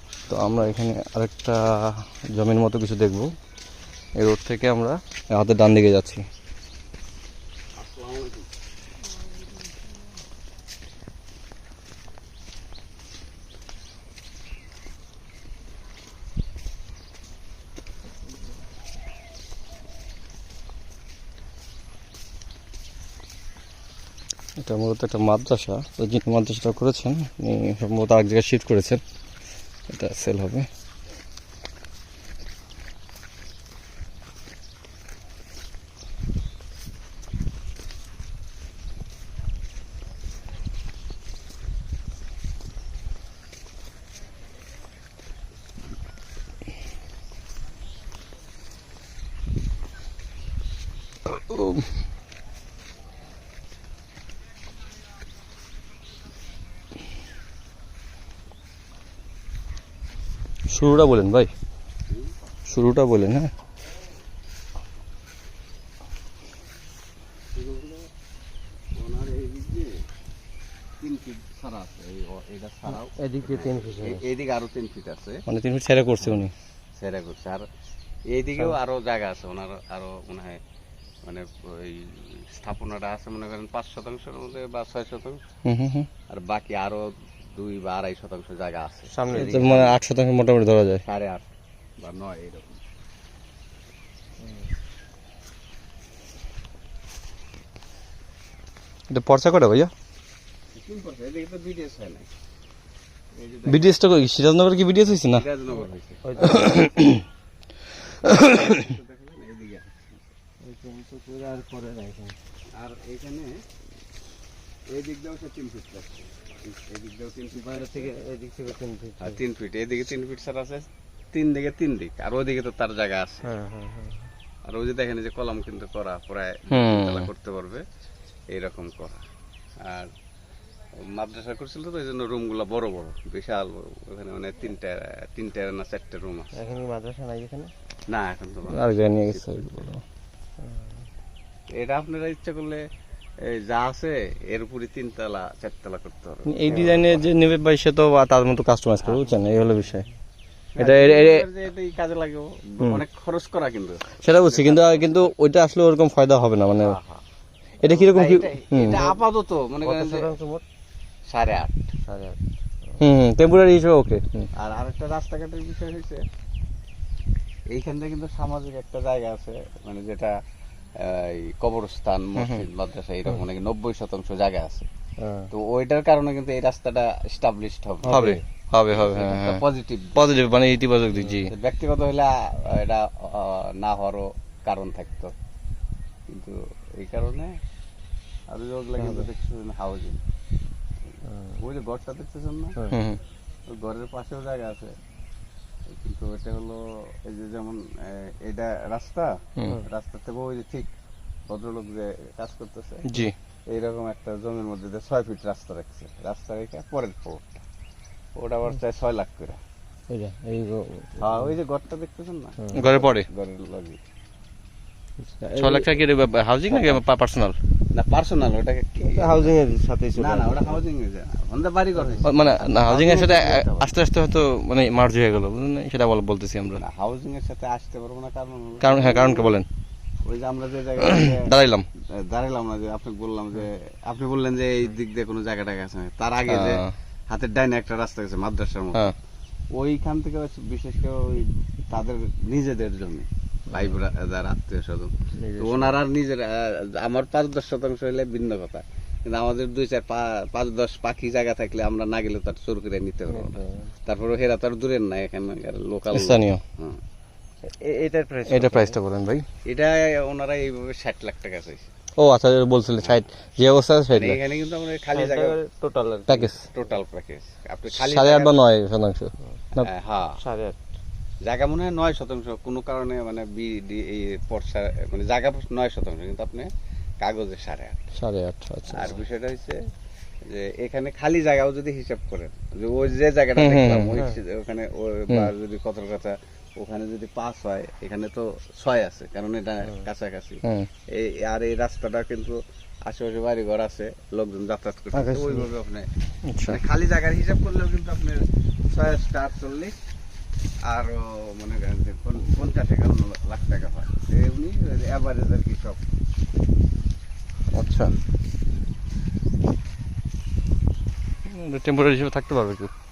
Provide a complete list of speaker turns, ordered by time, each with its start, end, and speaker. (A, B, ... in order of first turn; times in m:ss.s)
0:00.3-0:03.3 A
0:04.2-0:06.2 A
0:07.8-0:08.5 B
0:24.6-0:29.0 A
0:29.9-0:30.7 A
0:51.3-0:51.9 A
1:00.7-1:01.5 A
1:02.7-1:03.5 A
1:07.5-1:08.1 B
1:09.0-1:10.1 B
1:11.0-1:15.4 B
1:13.1-1:14.2 C
1:15.5-1:16.5 A
1:17.0-1:17.7 B
1:18.3-1:20.6 B
1:21.2-1:25.4 B
1:25.6-1:26.1 A
1:26.3-1:30.0 B
1:29.1-1:29.7 C
1:29.3-1:31.0 A
1:31.0-1:32.8 B
1:39.1-1:39.9 A
1:40.7-1:42.3 B
1:43.3-1:44.0 B
1:43.7-1:45.4 A
1:45.3-1:46.6 B
1:46.2-1:46.9 C
1:46.4-1:47.2 A
1:48.2-1:48.8 A
1:48.4-1:50.2 B
1:50.6-1:52.4 C
1:52.7-1:53.6 B
1:54.9-1:58.2 B
1:57.5-1:59.4 C
1:59.2-2:03.5 B
2:03.5-2:04.2 C
2:04.7-2:07.8 B
2:06.7-2:07.3 A
2:08.5-2:09.2 B
2:09.8-2:10.1 B
2:11.0-2:16.6 B
2:16.5-2:17.7 C
2:18.1-2:19.9 B
2:18.7-2:20.0 A
2:20.6-2:20.9 C
2:21.8-2:22.8 B
2:23.4-2:27.4 B
2:26.5-2:30.1 A
2:26.7-2:27.0 C
2:29.1-2:29.4 B
2:30.7-2:35.3 B
2:30.8-2:31.4 A
2:34.2-2:37.0 A
2:36.8-2:37.2 B
2:37.8-2:39.1 A
2:37.8-2:40.3 B
2:39.8-2:40.6 C
2:41.3-2:41.9 B
2:42.1-2:42.4 C
2:43.0-2:44.5 A
2:44.6-2:46.2 B
2:47.7-2:50.3 B
2:51.0-2:54.9 B
2:52.4-2:52.6 A
2:55.2-2:55.5 C
2:55.5-2:58.4 B
2:58.0-2:58.4 C
2:58.1-3:01.5 A
2:58.9-3:00.3 B
3:01.5-3:05.3 B
3:06.3-3:07.5 B
3:08.5-3:10.2 B
3:09.0-3:09.3 C
3:11.3-3:11.6 C
3:11.6-3:12.8 B
3:12.9-3:13.2 A
3:13.7-3:15.0 B
3:15.9-3:20.9 B
3:21.5-3:23.1 B
3:23.1-3:23.3 A
3:23.7-3:27.6 B
3:28.4-3:29.6 B
3:30.1-3:31.3 C
3:31.2-3:34.0 B
3:32.7-3:33.3 A
3:35.2-3:36.0 C
3:35.6-3:37.6 A
3:36.7-3:37.0 B
3:37.9-3:39.6 B
3:39.0-3:40.8 C
3:40.2-3:43.9 B
3:42.2-3:46.8 A
3:46.8-3:49.5 B
3:48.8-3:49.7 A
3:50.2-3:51.5 B
3:51.1-3:51.9 A
3:52.2-3:59.1 B
3:56.5-3:56.9 A
3:59.7-4:17.0 B
4:05.4-4:06.0 C
4:13.3-4:13.9 C
4:16.1-4:16.6 A
4:17.6-4:19.0 C
4:18.5-4:19.5 A
4:19.7-4:21.9 B
4:22.2-4:24.4 A
4:24.1-4:25.6 B
4:25.1-4:26.5 C
4:26.3-4:26.6 A
4:26.5-4:28.6 B
4:27.9-4:29.9 A
4:29.8-4:30.4 B
4:30.4-4:30.8 C
4:31.4-4:38.0 B
4:38.2-4:39.2 A
4:38.9-4:39.8 B
4:40.4-4:56.1 B
4:43.6-4:44.2 A
4:50.6-4:50.9 A
4:55.1-4:55.6 C
4:56.5-4:56.8 A
4:56.6-5:00.0 B
5:00.8-5:06.0 B
5:07.7-5:08.1 A
5:11.5-5:12.9 A